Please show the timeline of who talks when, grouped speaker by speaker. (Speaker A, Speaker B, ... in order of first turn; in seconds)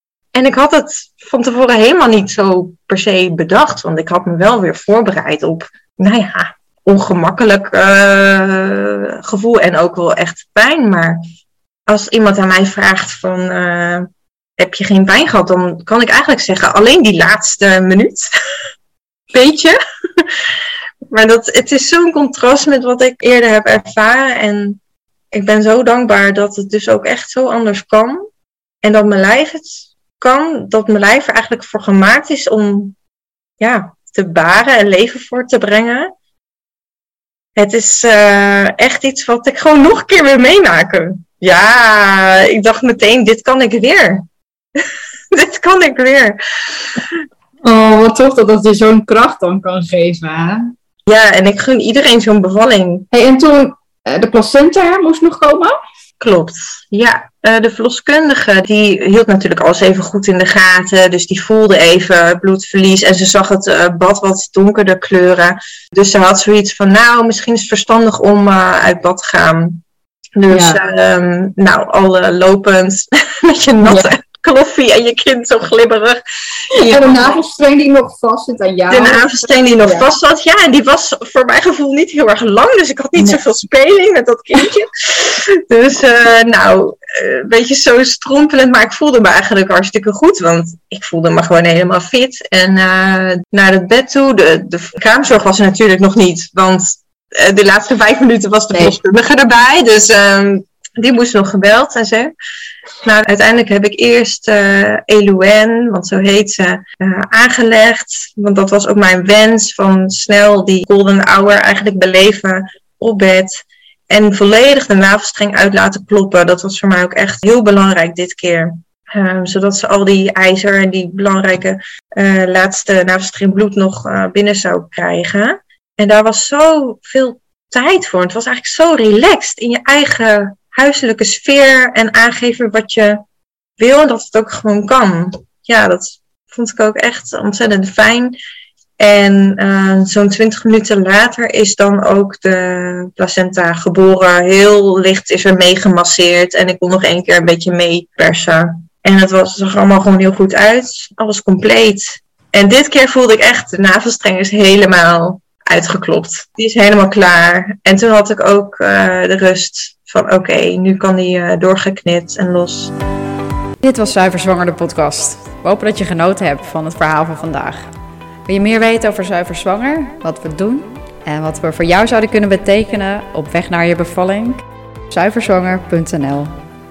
Speaker A: 0.3-11.2, 11.9-18.3, 19.3-20.5, 21.1-24.8, 25.3-28.2, 28.8-32.9, 33.6-36.1, 37.6-44.3, 44.8-47.0, 51.0-53.1, 56.2-69.8, 70.4-76.2, 76.7-77.3, 78.9-102.3, 103.0-133.2, 133.8-138.4, 139.0-162.9
Speaker B: 47.6-50.7, 53.1-55.7, 70.5-70.8, 73.8-74.1, 76.8-80.0
Speaker C: 163.8-167.8, 168.5-176.5